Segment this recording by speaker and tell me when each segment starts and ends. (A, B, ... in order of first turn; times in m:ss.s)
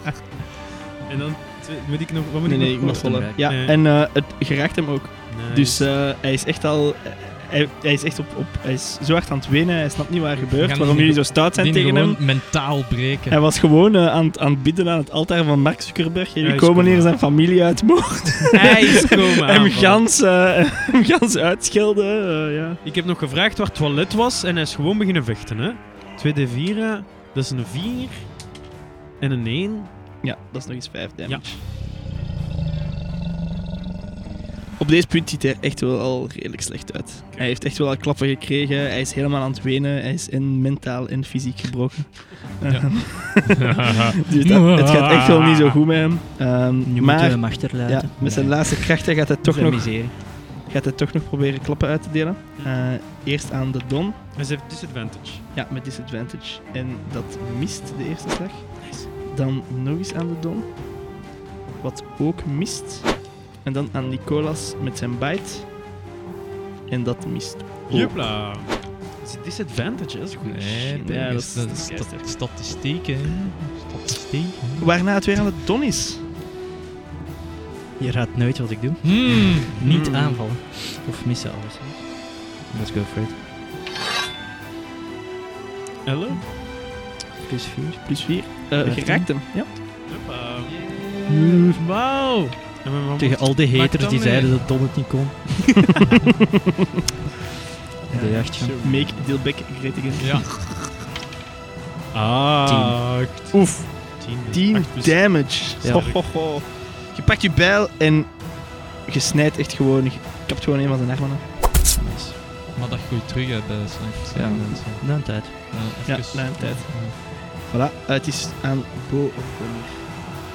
0:01.1-0:03.8 A
0:02.4-0:12.5 B
0:02.8-0:03.4 C
0:05.3-0:05.9 A
0:10.4-0:13.4 D
0:13.3-0:22.8 B
0:16.4-0:17.1 A
0:18.5-0:20.0 A
0:22.8-0:28.6 A
0:29.2-0:29.9 A
0:30.2-0:31.6 B
0:31.2-0:31.5 A
0:34.8-0:54.2 B
0:42.6-0:45.5 D
0:45.4-0:45.8 A
0:46.8-0:50.1 C
0:54.3-0:55.4 A
0:55.5-1:01.2 B
1:01.8-1:05.7 B
1:06.9-1:08.2 B
1:07.9-1:11.4 A
1:10.4-1:15.4 D
1:11.0-1:12.3 B
1:13.4-1:13.7 A
1:14.8-1:16.3 B
1:18.0-1:23.4 C
1:19.0-1:19.7 D
1:19.8-1:20.4 A
1:26.0-1:26.4 A
1:27.4-1:29.4 C
1:28.0-1:29.7 B
1:30.1-1:30.7 A
1:30.6-1:32.6 D
1:31.3-1:31.8 C
1:32.8-1:33.6 A
1:33.2-1:36.0 C
1:33.7-1:34.5 D
1:38.1-1:39.3 C
1:38.1-1:40.5 B
1:40.2-1:40.5 D
1:42.1-1:46.4 A
1:42.6-1:43.2 C
1:43.5-1:51.5 B
1:45.8-1:46.1 C
1:51.9-1:52.4 C
1:52.7-1:57.2 D
1:54.3-1:55.8 C
1:56.0-2:00.1 B